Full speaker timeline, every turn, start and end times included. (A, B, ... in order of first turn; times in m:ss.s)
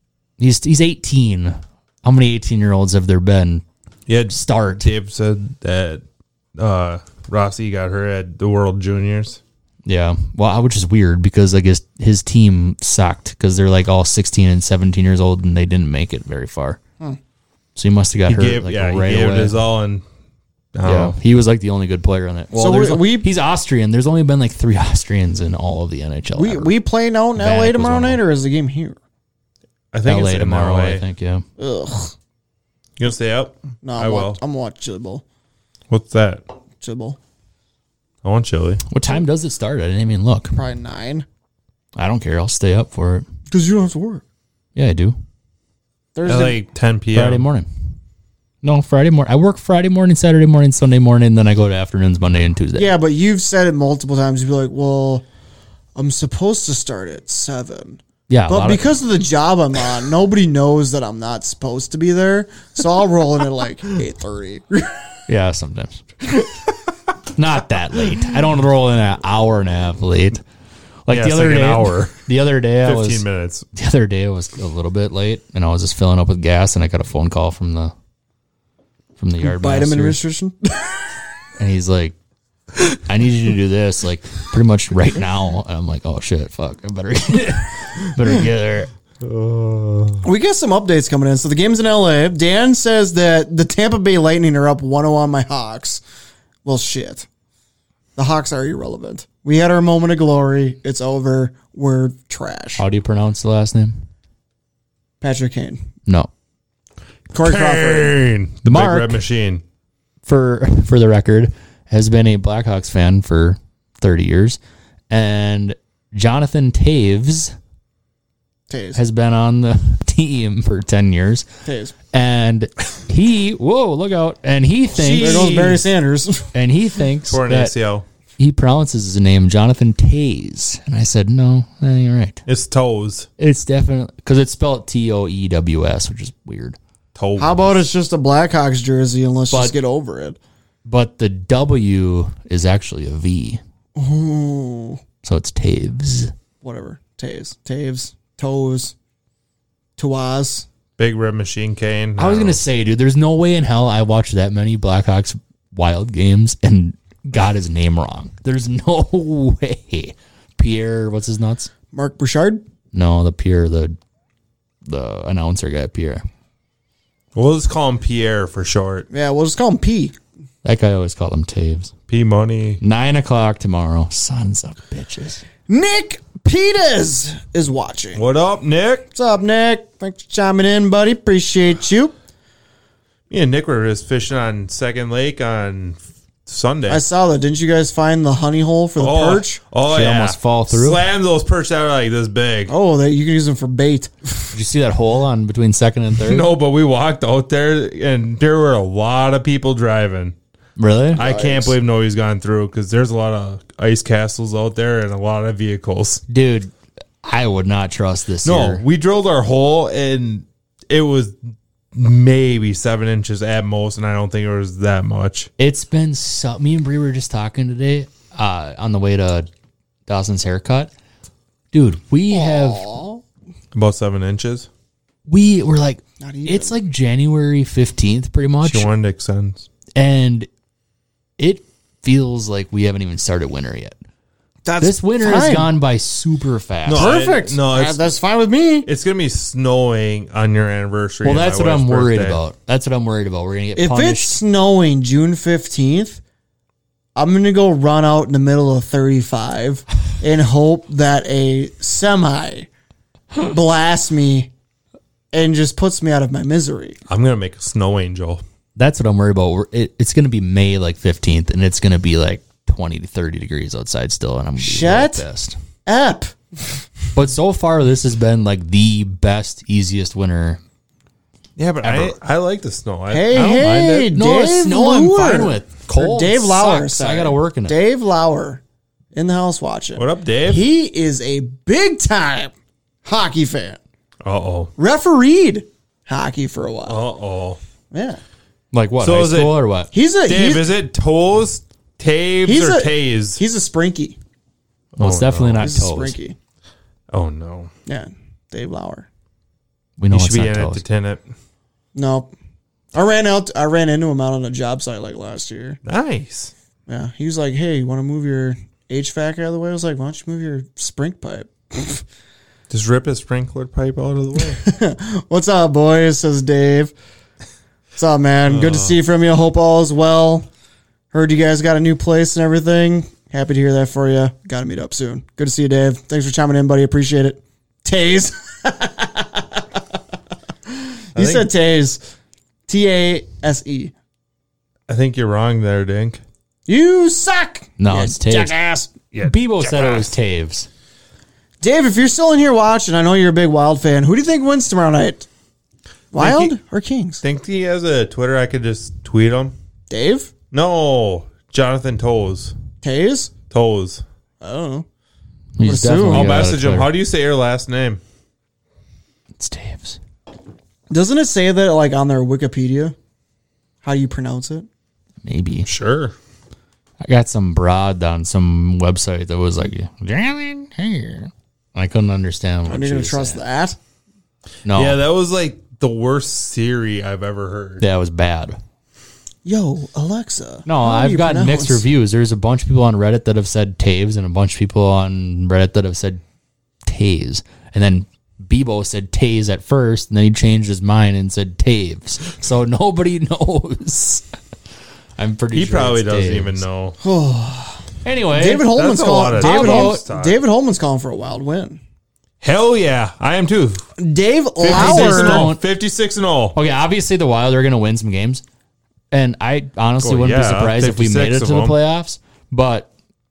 0:00.4-0:03.6 A
0:04.1-0:06.0 B
0:04.3-0:04.9 A
0:06.6-0:09.4 B
0:09.8-0:16.8 A
0:17.8-0:19.6 A
0:18.3-0:20.0 B
0:20.7-0:21.2 B
0:20.8-0:26.7 A
0:22.5-0:23.3 C
0:26.3-0:29.0 C
0:27.4-0:28.2 A
0:29.9-0:31.0 B
0:30.0-0:31.4 A
0:31.6-0:32.1 C
0:33.0-0:34.4 B
0:33.8-0:35.2 C
0:35.9-0:36.4 B
0:36.8-0:37.2 C
0:38.2-0:38.8 B
0:38.9-0:40.6 A
0:40.5-0:41.2 C
0:42.0-0:43.2 A
0:43.5-0:44.2 C
0:44.8-0:45.2 A
0:46.1-0:46.6 C
0:46.2-0:47.4 B
0:47.1-0:47.7 A
0:48.6-0:52.9 A
0:52.7-0:55.2 C
0:56.0-1:05.0 C
0:58.3-0:58.9 A
1:05.3-1:06.0 A
1:07.3-1:10.4 A
1:11.0-1:13.2 A
1:11.1-1:12.2 B
1:12.8-1:13.6 B
1:13.7-1:17.9 A
1:19.2-1:20.2 A
1:19.4-1:21.0 C
1:21.6-1:22.1 A
1:23.0-1:28.9 A
1:29.2-1:30.2 B
1:30.2-1:36.0 C
1:36.6-1:37.3 C
1:38.2-1:42.8 C
1:42.8-1:44.0 A
1:45.2-1:45.8 C
1:47.3-1:48.1 C
1:47.4-1:49.6 B
1:48.6-1:49.2 A
1:50.2-1:54.6 A
1:55.1-1:57.5 A
1:58.7-1:59.0 C
1:58.9-2:01.4 A
2:01.6-2:01.9 C
2:02.1-2:05.8 A
2:05.0-2:05.8 B
2:05.0-2:06.5 C
2:06.5-2:07.7 A
2:07.3-2:08.0 B
2:08.4-2:12.4 A
2:12.4-2:13.3 B
2:13.4-2:16.8 A
2:17.2-2:17.8 B
2:17.4-2:20.4 C
2:19.5-2:19.8 A
2:20.8-2:23.6 A
2:24.0-2:25.0 C
2:25.2-2:26.3 A
2:26.6-2:28.9 C
2:30.0-2:30.6 C
2:31.0-2:32.6 B
2:32.2-2:41.7 A
2:41.9-2:42.6 C
2:42.9-2:44.0 A
2:44.8-2:46.2 A
2:47.3-2:49.0 B
2:49.1-2:50.1 C
2:50.6-2:51.9 A
2:52.1-2:52.8 B
2:52.8-2:55.4 A
2:55.7-2:58.2 C
2:58.1-2:59.1 B
2:59.1-3:02.1 C
3:03.3-3:07.0 B
3:06.9-3:09.6 C
3:09.0-3:12.7 B
3:09.8-3:11.0 A
3:12.7-3:14.5 C
3:14.5-3:16.5 A
3:16.2-3:20.3 B
3:20.8-3:21.2 A
3:21.2-3:21.7 C
3:21.2-3:26.2 B
3:26.3-3:26.7 A
3:27.2-3:28.8 A
3:28.4-3:31.3 B
3:31.9-3:35.5 B
3:35.6-3:39.5 A
3:40.1-3:40.9 A
3:41.7-3:42.9 A
3:42.3-3:43.2 C
3:43.7-3:44.7 B
3:45.3-3:48.9 A
3:46.2-3:46.8 C
3:48.6-3:49.7 B
3:49.9-3:50.5 A
3:51.4-3:54.0 A
3:54.6-3:55.7 C
3:54.8-3:57.1 A
3:56.8-3:58.1 B
3:56.9-3:58.9 C
3:58.8-4:02.4 B
4:01.2-4:04.4 A
4:03.8-4:06.2 C
4:07.1-4:12.7 C
4:13.3-4:14.5 C
4:15.3-4:17.0 C
4:17.1-4:18.4 B
4:18.8-4:25.6 A
4:24.6-4:25.2 C
4:25.8-4:26.8 C
4:27.1-4:30.6 A
4:31.6-4:34.1 B
4:31.8-4:32.1 A
4:33.1-4:38.6 C
4:34.1-4:37.8 A
4:39.1-4:42.5 C
4:40.0-4:40.6 B
4:43.0-4:43.8 C
4:44.2-4:44.7 B
4:44.8-4:47.0 C
4:46.9-4:47.6 B
4:47.9-4:48.2 C
4:48.7-4:49.9 A
4:49.0-4:49.6 B
4:49.9-4:50.7 C
4:50.2-4:53.4 B
4:52.4-4:54.2 C
4:54.9-4:55.7 B
4:55.0-4:56.2 A
4:55.6-4:56.4 C
4:57.1-4:57.7 B
4:57.8-4:59.1 C
5:00.0-5:00.8 A
5:00.1-5:01.2 B
5:01.9-5:02.3 C
5:02.9-5:05.8 C
5:05.8-5:06.5 B
5:06.9-5:12.0 C
5:12.7-5:14.6 B
5:14.6-5:16.9 C
5:18.0-5:20.5 C
5:18.5-5:19.0 B
5:21.1-5:29.8 C
5:30.7-5:32.0 C
5:31.1-5:31.5 B
5:32.7-5:33.9 C
5:34.9-5:36.2 B
5:36.7-5:39.0 C
5:37.8-5:38.5 A
5:39.1-5:40.1 B
5:39.2-5:40.7 A
5:41.6-5:45.3 C
5:46.1-5:47.2 C
5:46.2-5:46.5 B
5:47.2-5:49.5 B
5:49.9-5:50.3 C
5:50.5-5:52.5 B
5:52.8-5:53.3 C
5:53.5-5:54.0 B
5:54.4-5:54.8 C
5:55.6-5:56.9 A
5:55.6-5:56.4 C
5:56.1-5:58.0 B
5:59.4-6:00.0 A
6:00.9-6:02.9 C
6:03.8-6:04.7 C
6:05.2-6:05.7 A
6:05.6-6:06.1 B
6:07.0-6:13.4 A
6:12.6-6:13.8 C
6:14.6-6:15.0 A
6:14.7-6:17.8 B
6:17.8-6:18.6 A
6:19.4-6:21.8 C
6:20.6-6:26.2 A
6:26.8-6:34.2 A
6:35.2-6:36.6 A
6:35.5-6:37.0 B
6:37.0-6:37.8 C
6:38.0-6:38.7 A
6:38.3-6:41.8 C
6:38.7-6:40.4 B
6:39.3-6:40.0 A
6:42.4-6:43.8 B
6:44.0-6:45.5 C
6:44.6-6:46.6 B
6:44.7-6:45.6 A
6:46.5-6:48.4 A
6:49.1-6:52.9 A
6:50.0-6:51.8 B